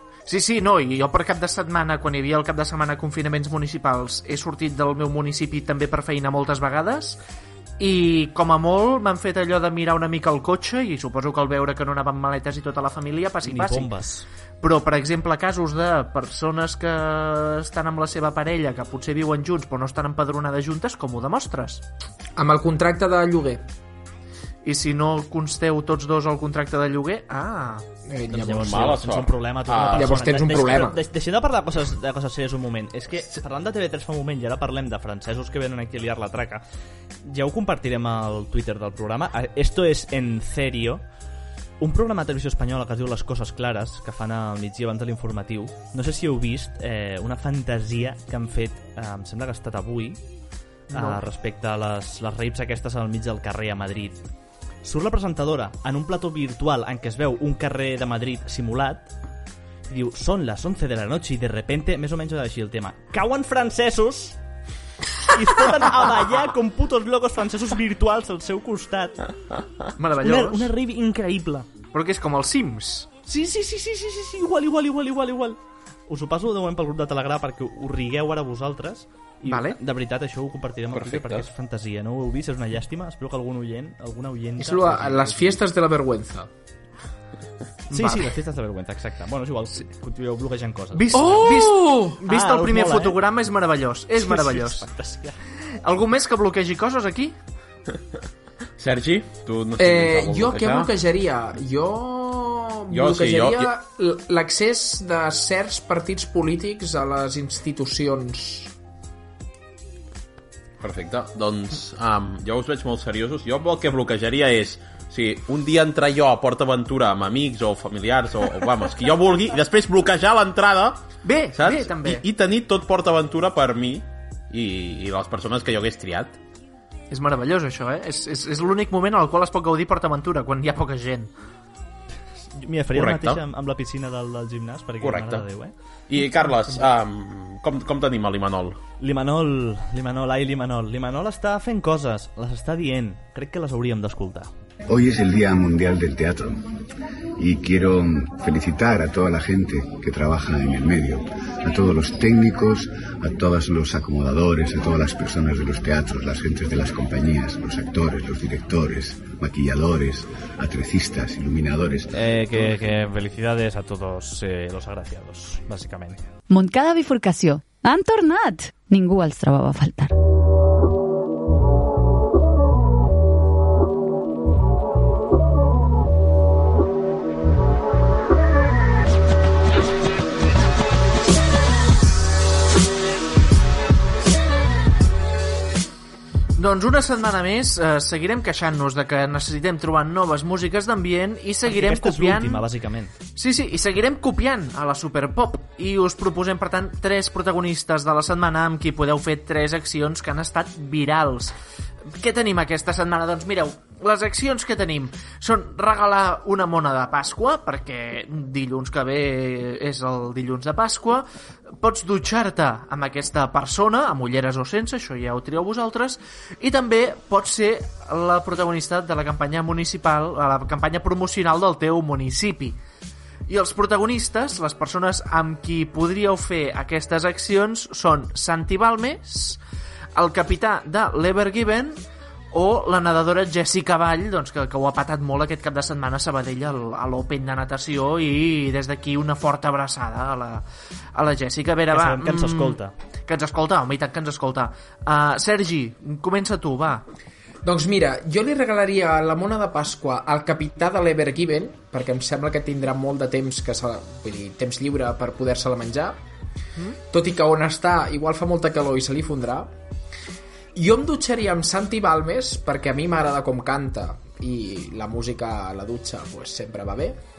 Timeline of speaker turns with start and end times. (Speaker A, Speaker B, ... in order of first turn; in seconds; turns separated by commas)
Speaker A: 0.3-7.2, Speaker A: 7.8-13.9, Speaker B: 13.4-14.3, Speaker A: 14.6-21.8, Speaker C: 22.4-23.6, Speaker A: 24.6-27.8, Speaker C: 28.1-29.0, Speaker B: 28.3-36.6, Speaker D: 28.6-30.2, Speaker C: 29.9-31.0, Speaker B: 37.2-41.0, Speaker B: 41.8-50.2, Speaker A: 50.9-51.2, Speaker B: 50.9-54.2, Speaker B: 54.8-59.1, Speaker B: 59.9-64.4, Speaker B: 65.3-69.2, Speaker A: 70.0-70.7, Speaker B: 70.2-71.7, Speaker A: 71.9-73.1, Speaker B: 73.3-85.6, Speaker A: 79.5-79.8, Speaker D: 80.9-81.5, Speaker C: 84.6-86.5, Speaker A: 87.9-88.3, Speaker B: 87.9-91.6, Speaker A: 90.9-94.9, Speaker C: 91.1-92.2, Speaker B: 92.3-93.2, Speaker B: 94.2-95.4, Speaker A: 95.8-97.3, Speaker D: 98.8-100.9, Speaker C: 99.8-108.7, Speaker D: 102.9-103.7, Speaker D: 110.8-121.0, Speaker A: 121.2-122.2, Speaker D: 121.5-126.4, Speaker A: 127.1-131.3, Speaker B: 132.6-135.7, Speaker D: 132.9-133.4, Speaker D: 135.0-135.5, Speaker D: 136.1-138.8, Speaker B: 139.0-144.5, Speaker E: 144.9-146.6, Speaker E: 147.4-162.7, Speaker B: 162.1-166.2, Speaker F: 166.5-170.1, Speaker A: 186.6-192.6, Speaker B: 191.7-193.1, Speaker A: 193.4-201.5, Speaker A: 202.2-211.2, Speaker A: 211.8-222.8, Speaker A: 223.5-229.6, Speaker A: 230.2-232.0, Speaker A: 232.5-240.6, Speaker A: 241.2-247.0, Speaker B: 241.9-242.9, Speaker C: 247.6-256.2, Speaker C: 257.1-259.7, Speaker C: 260.8-267.2